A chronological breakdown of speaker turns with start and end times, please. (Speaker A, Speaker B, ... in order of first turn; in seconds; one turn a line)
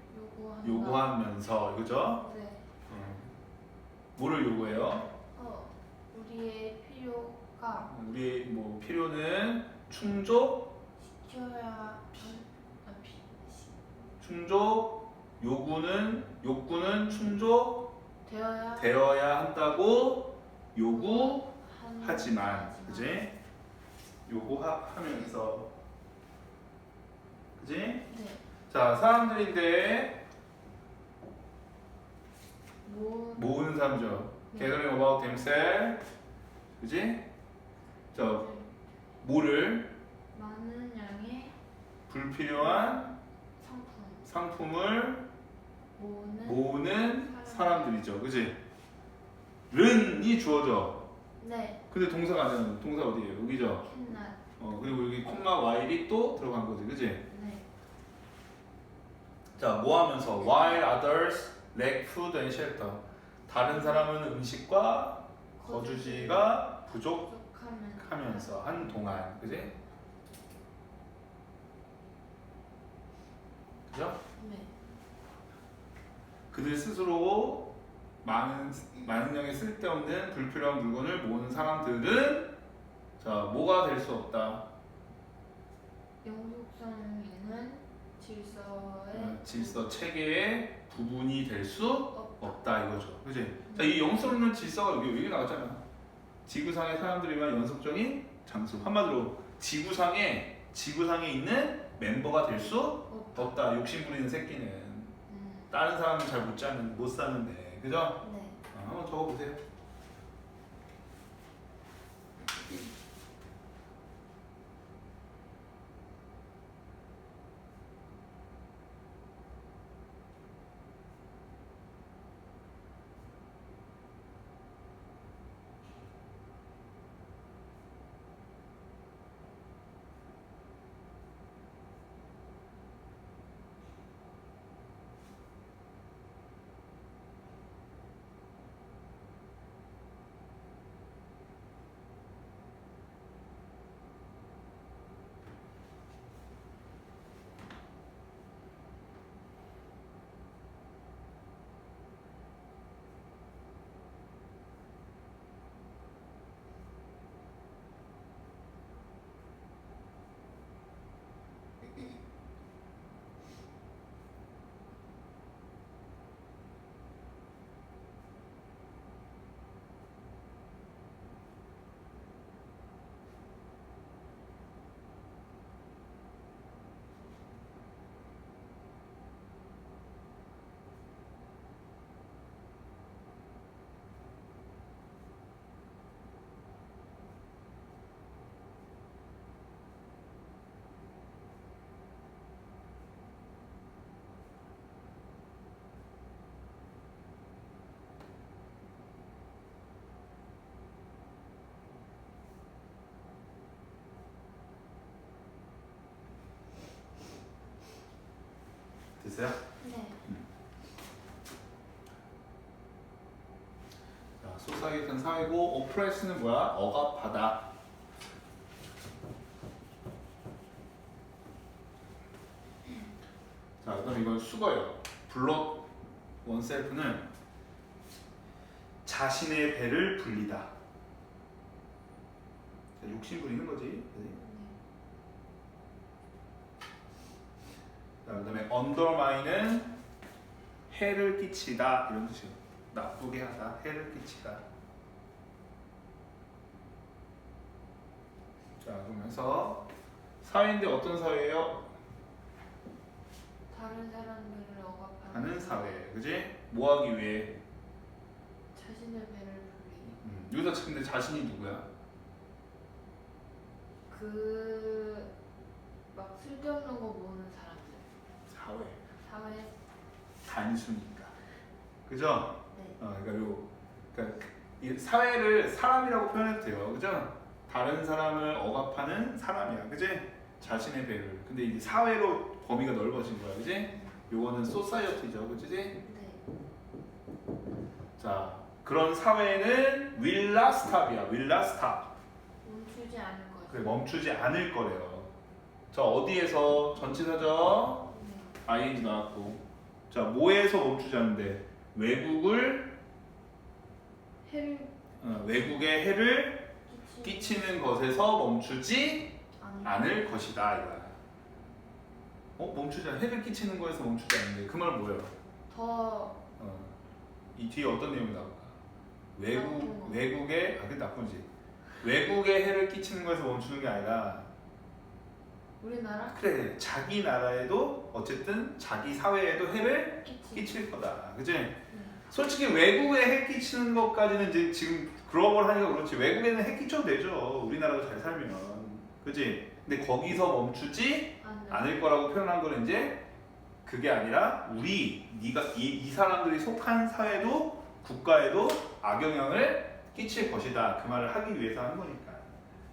Speaker A: 0.1-1.1
Speaker B: 0.6-2.2
Speaker A: 2.2-2.6
Speaker B: 2.9-3.4
Speaker B: 4.2-5.1
Speaker A: 5.3-7.9
Speaker B: 7.8-10.8
Speaker A: 11.0-13.7
Speaker B: 12.1-12.4
Speaker B: 14.2-18.0
Speaker A: 18.2-19.0
Speaker B: 18.8-23.4
Speaker A: 20.9-23.2
Speaker B: 24.3-25.7
Speaker B: 27.6-28.1
Speaker A: 28.1-28.4
Speaker B: 28.7-30.2
Speaker A: 32.8-33.6
Speaker B: 33.3-36.0
Speaker A: 34.5-34.8
Speaker B: 36.8-37.3
Speaker B: 38.1-38.5
Speaker A: 38.3-38.7
Speaker B: 39.2-39.9
Speaker A: 40.3-41.5
Speaker B: 42.1-43.1
Speaker A: 42.5-44.3
Speaker B: 44.2-45.3
Speaker A: 46.0-48.0
Speaker B: 46.5-48.6
Speaker B: 49.7-51.1
Speaker A: 51.4-51.8
Speaker B: 51.9-53.9
Speaker A: 53.8-54.4
Speaker B: 54.6-57.3
Speaker A: 57.3-57.7
Speaker B: 59.6-67.3
Speaker A: 63.5-64.1
Speaker A: 65.6-69.1
Speaker B: 68.0-69.7
Speaker B: 73.9-74.2
Speaker A: 74.4-74.7
Speaker B: 76.5-82.5
Speaker B: 83.2-84.7
Speaker A: 86.2-89.9
Speaker B: 89.1-95.8
Speaker A: 92.1-92.7
Speaker A: 93.7-94.1
Speaker B: 96.5-105.2
Speaker A: 103.1-103.6
Speaker A: 105.3-105.7
Speaker B: 105.7-109.6
Speaker A: 108.2-108.6
Speaker B: 209.2-209.6
Speaker A: 209.8-210.2
Speaker B: 214.4-217.7
Speaker B: 223.8-225.9
Speaker B: 226.4-227.3
Speaker B: 229.1-230.7
Speaker B: 233.0-234.4
Speaker A: 234.3-234.8
Speaker B: 238.2-239.9
Speaker B: 240.9-244.6
Speaker B: 248.8-249.9
Speaker B: 250.4-251.9
Speaker A: 253.7-256.0
Speaker B: 255.3-257.6
Speaker A: 258.7-260.2
Speaker B: 260.2-261.9
Speaker A: 264.1-265.3
Speaker A: 266.1-268.1
Speaker B: 268.5-269.0
Speaker A: 269.2-269.7
Speaker B: 270.4-271.4
Speaker B: 272.1-286.0
Speaker A: 272.7-273.0
Speaker A: 286.0-286.4
Speaker B: 288.2-292.1
Speaker A: 292.6-294.0
Speaker B: 293.7-295.3
Speaker B: 295.9-298.1
Speaker A: 298.1-298.6
Speaker B: 298.6-303.0
Speaker A: 304.4-305.0
Speaker B: 305.2-311.2
Speaker A: 306.9-307.7
Speaker A: 309.6-310.4
Speaker B: 312.6-315.3
Speaker A: 315.7-316.4
Speaker B: 316.6-317.0
Speaker B: 317.5-318.8
Speaker B: 319.4-321.5
Speaker A: 319.5-320.3
Speaker B: 322.0-324.5
Speaker A: 325.8-326.4
Speaker B: 326.3-343.3
Speaker A: 330.2-330.8
Speaker A: 331.9-332.2
Speaker A: 341.4-342.1
Speaker B: 343.9-352.5